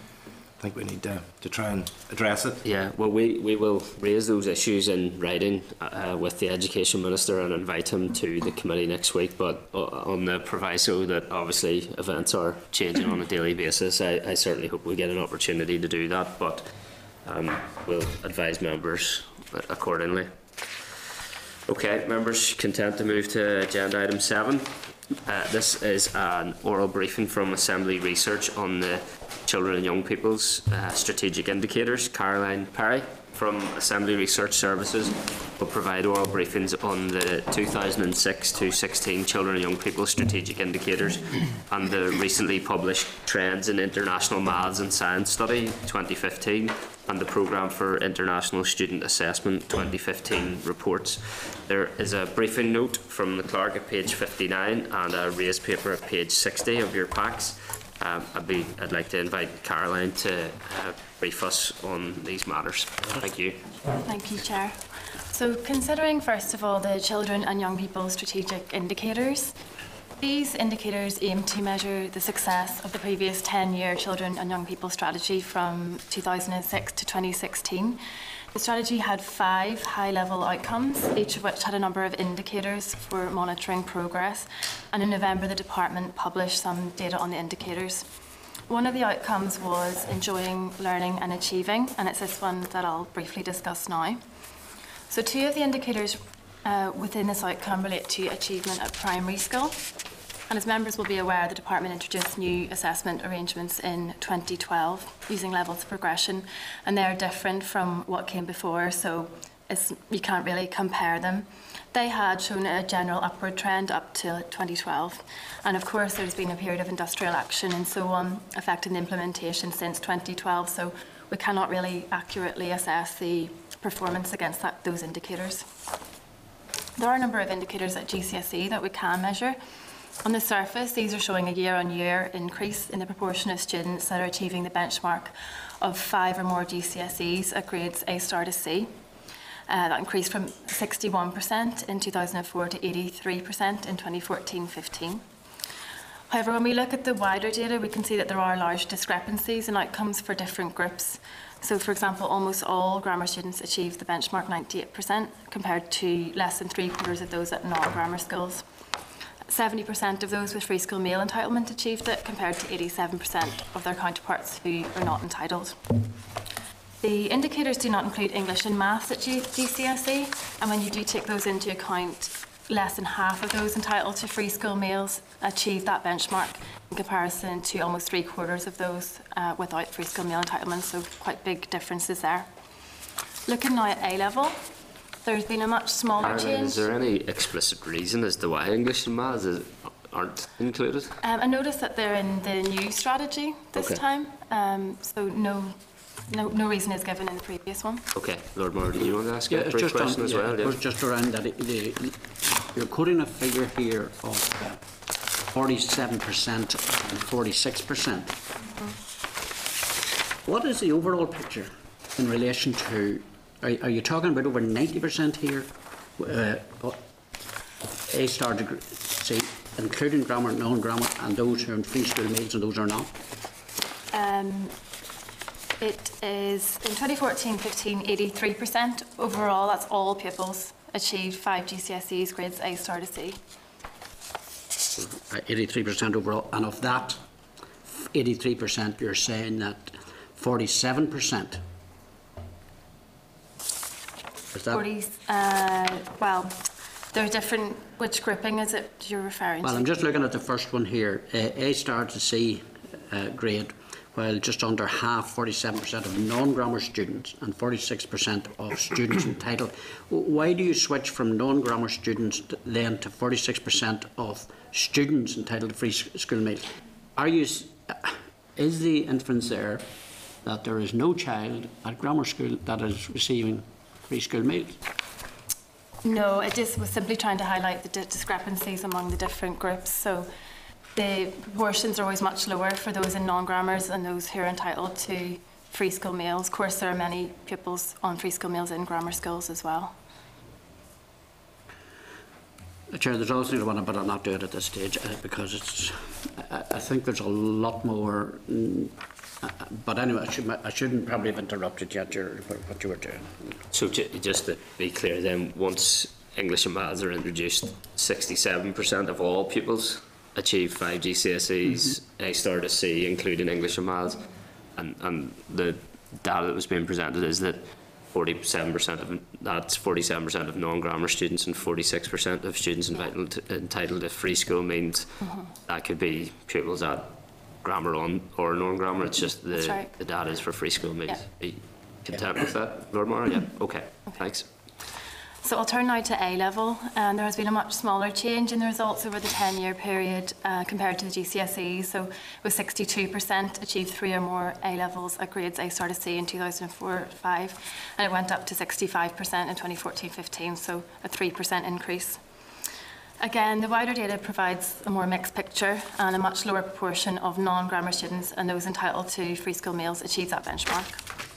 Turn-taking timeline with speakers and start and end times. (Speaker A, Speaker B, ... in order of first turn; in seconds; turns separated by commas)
Speaker A: 0.6-2.6, Speaker B: 2.6-16.7, Speaker B: 17.2-20.9, Speaker B: 21.7-63.6, Speaker C: 64.0-64.8, Speaker C: 65.3-69.5, Speaker C: 70.2-78.0, Speaker C: 78.5-88.1, Speaker C: 88.7-94.2, Speaker C: 95.1-99.8, Speaker C: 100.5-125.7, Speaker C: 127.0-129.6, Speaker C: 130.2-138.9, Speaker C: 139.7-145.2, Speaker C: 146.3-158.6, Speaker C: 159.5-166.0, Speaker C: 167.0-182.5, Speaker C: 183.5-184.6, Speaker C: 185.2-186.8, Speaker B: 186.2-191.2, Speaker C: 191.2-198.1, Speaker B: 193.8-194.0, Speaker B: 198.2-200.8, Speaker D: 199.5-204.8, Speaker D: 205.5-208.4, Speaker D: 210.4-217.0, Speaker D: 218.1-223.2, Speaker C: 224.1-224.8, Speaker C: 225.8-233.4, Speaker D: 235.0-237.2, Speaker D: 237.9-241.7, Speaker D: 244.5-244.9, Speaker C: 244.7-246.6, Speaker C: 247.1-249.9, Speaker D: 249.6-269.9, Speaker D: 270.4-274.8, Speaker C: 276.0-280.3, Speaker C: 280.9-289.9, Speaker D: 292.9-303.4, Speaker B: 303.7-314.2, Speaker B: 314.8-325.1, Speaker B: 325.7-334.5, Speaker C: 329.6-329.9, Speaker C: 335.4-352.2, Speaker C: 353.2-361.0